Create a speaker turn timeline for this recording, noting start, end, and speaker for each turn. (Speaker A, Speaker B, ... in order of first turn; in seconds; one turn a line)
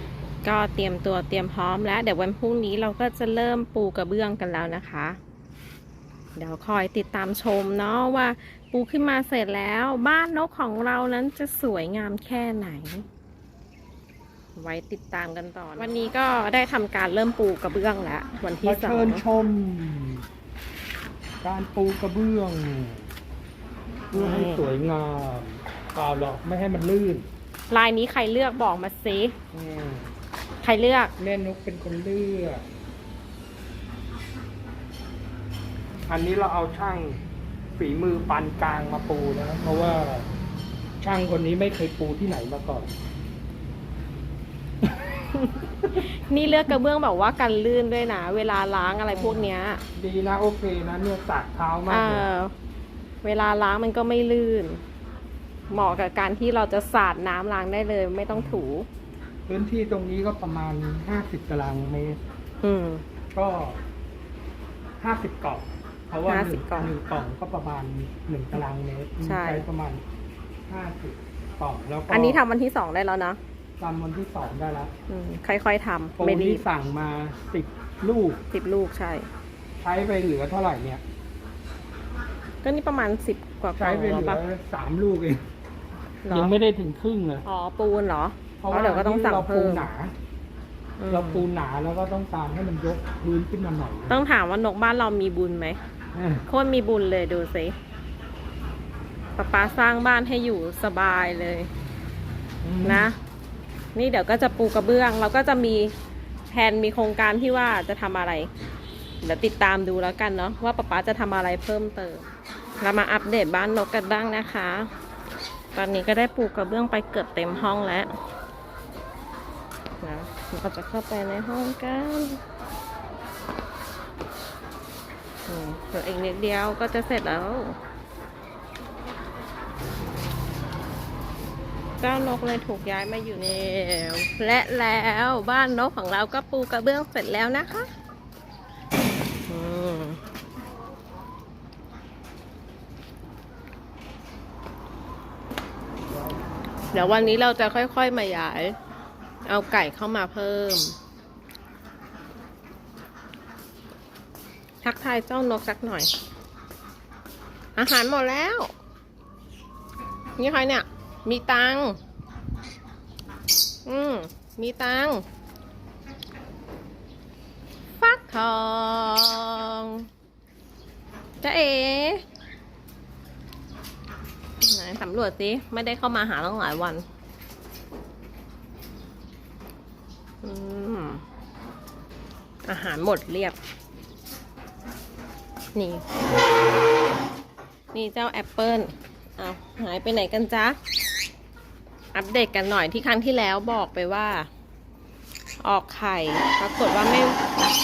Speaker A: 0.4-5.2
Speaker A: 6.3-13.0
Speaker A: 14.6-19.2
Speaker B: 18.6-20.2
Speaker B: 21.4-23.1
Speaker A: 24.1-24.7
Speaker B: 24.1-27.3
Speaker A: 27.7-29.3
Speaker B: 29.5-30.1
Speaker A: 30.6-31.1
Speaker B: 31.2-32.6
Speaker B: 36.1-37.2
Speaker B: 37.8-40.3
Speaker B: 41.0-42.9
Speaker A: 44.9-49.8
Speaker B: 49.1-52.3
Speaker A: 51.9-52.5
Speaker A: 53.2-54.8
Speaker A: 55.7-58.9
Speaker B: 55.7-56.0
Speaker B: 58.3-58.6
Speaker B: 59.5-62.2
Speaker A: 62.6-63.0
Speaker B: 63.3-63.8
Speaker B: 65.0-70.0
Speaker A: 66.3-66.9
Speaker A: 69.2-69.7
Speaker B: 70.7-72.4
Speaker A: 72.1-73.4
Speaker B: 73.8-74.9
Speaker A: 75.1-76.6
Speaker B: 76.2-78.4
Speaker A: 78.5-79.3
Speaker B: 79.8-81.0
Speaker A: 82.6-84.4
Speaker B: 83.8-85.4
Speaker A: 86.2-86.5
Speaker B: 86.3-87.4
Speaker A: 87.4-89.9
Speaker B: 88.6-90.1
Speaker A: 91.0-91.5
Speaker B: 91.1-94.2
Speaker A: 94.1-95.8
Speaker B: 96.1-96.4
Speaker A: 96.5-97.7
Speaker A: 99.3-101.7
Speaker B: 102.6-103.1
Speaker A: 102.8-103.2
Speaker A: 103.9-105.9
Speaker A: 106.5-108.5
Speaker A: 109.2-112.3
Speaker A: 112.8-114.9
Speaker A: 115.7-118.1
Speaker A: 120.0-122.4
Speaker A: 125.5-127.8
Speaker A: 132.0-137.9
Speaker A: 139.5-140.2
Speaker B: 146.1-146.4
Speaker B: 146.9-147.4
Speaker A: 146.9-148.8
Speaker A: 149.4-150.9
Speaker A: 154.8-156.1
Speaker A: 157.8-158.7
Speaker A: 160.4-162.0
Speaker A: 163.8-165.2
Speaker A: 168.0-170.1
Speaker A: 171.4-172.2
Speaker A: 174.6-177.0
Speaker A: 180.4-181.2
Speaker A: 182.7-183.6
Speaker A: 185.7-186.0
Speaker A: 187.9-190.8
Speaker A: 192.1-194.5
Speaker A: 195.6-197.4